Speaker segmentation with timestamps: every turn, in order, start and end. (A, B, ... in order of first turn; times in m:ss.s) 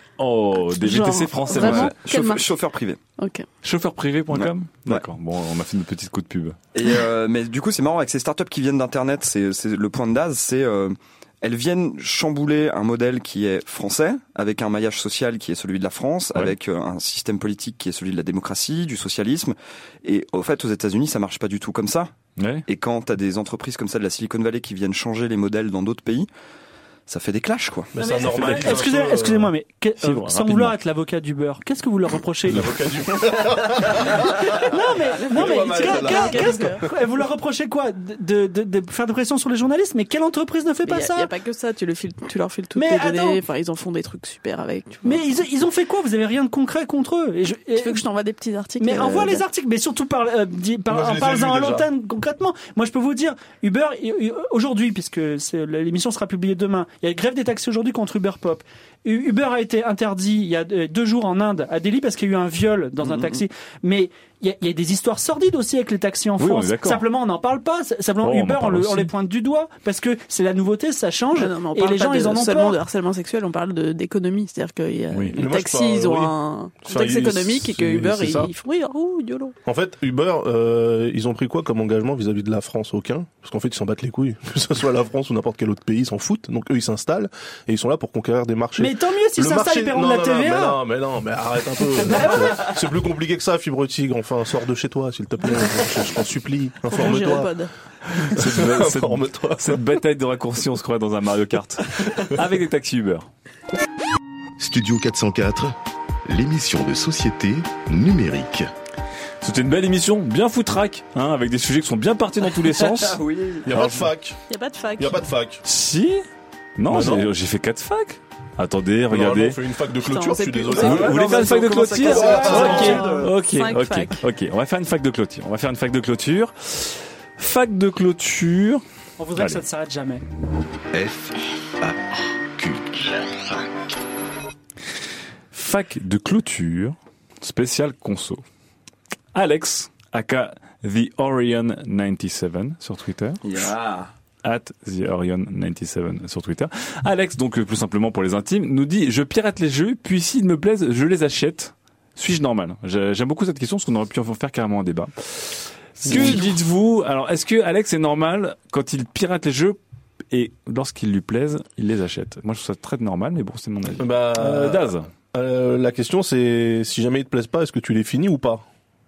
0:00.2-0:02.0 A
0:00.8-0:02.6 B
0:01.5-0:03.0 C
0:03.2-0:03.5 B
0:03.6-0:06.6 A
0:04.3-0:05.1 C
0:06.7-0:22.1 C
0:22.4-0:22.7 A
0:22.7-0:26.3 C
0:27.1-0:27.9 C
0:27.9-0:29.5 D
0:28.0-0:32.7 E
0:28.3-0:28.9 A
0:30.0-0:30.8 A
0:32.5-0:34.7 D
0:34.5-0:41.3 E
0:35.2-0:36.8 B
0:35.2-0:36.7 D
0:35.6-0:35.9 C
0:40.8-0:45.4 B
0:42.8-0:43.4 E
0:45.0-0:48.0 E
0:47.7-0:49.4 B
0:48.8-1:12.8 E
0:50.9-0:51.9 D
1:03.0-1:03.4 C
1:06.4-1:07.0 A
1:08.2-1:09.1 A
1:11.3-1:19.6 B
1:15.1-1:15.4 A
1:15.4-1:18.5 D
1:19.6-1:37.5 D
1:28.8-1:30.8 E
1:36.9-1:37.7 B
1:38.1-1:43.3 A
1:38.2-1:39.8 D
1:44.6-1:45.7 F
1:46.3-1:48.7 F
1:49.4-1:53.2 A
1:52.8-1:53.7 C
1:53.6-1:54.4 D
1:53.7-1:54.0 A
1:54.5-1:55.2 B
1:55.0-1:55.6 D
1:55.6-1:56.2 A
1:56.8-1:59.6 A
1:56.9-1:57.3 D
1:59.1-2:01.4 D
2:00.0-2:04.2 B
2:00.8-2:08.8 A
2:00.8-2:03.4 C
2:02.0-2:02.9 D
2:02.2-2:03.3 E
2:09.2-2:10.2 E
2:10.9-2:12.0 F
2:12.6-2:13.3 F
2:15.5-2:18.4 A
2:19.3-2:23.4 A
2:23.4-2:24.1 C
2:24.4-2:39.8 A
2:36.0-2:36.6 D
2:40.3-2:45.1 A
2:44.0-2:48.6 D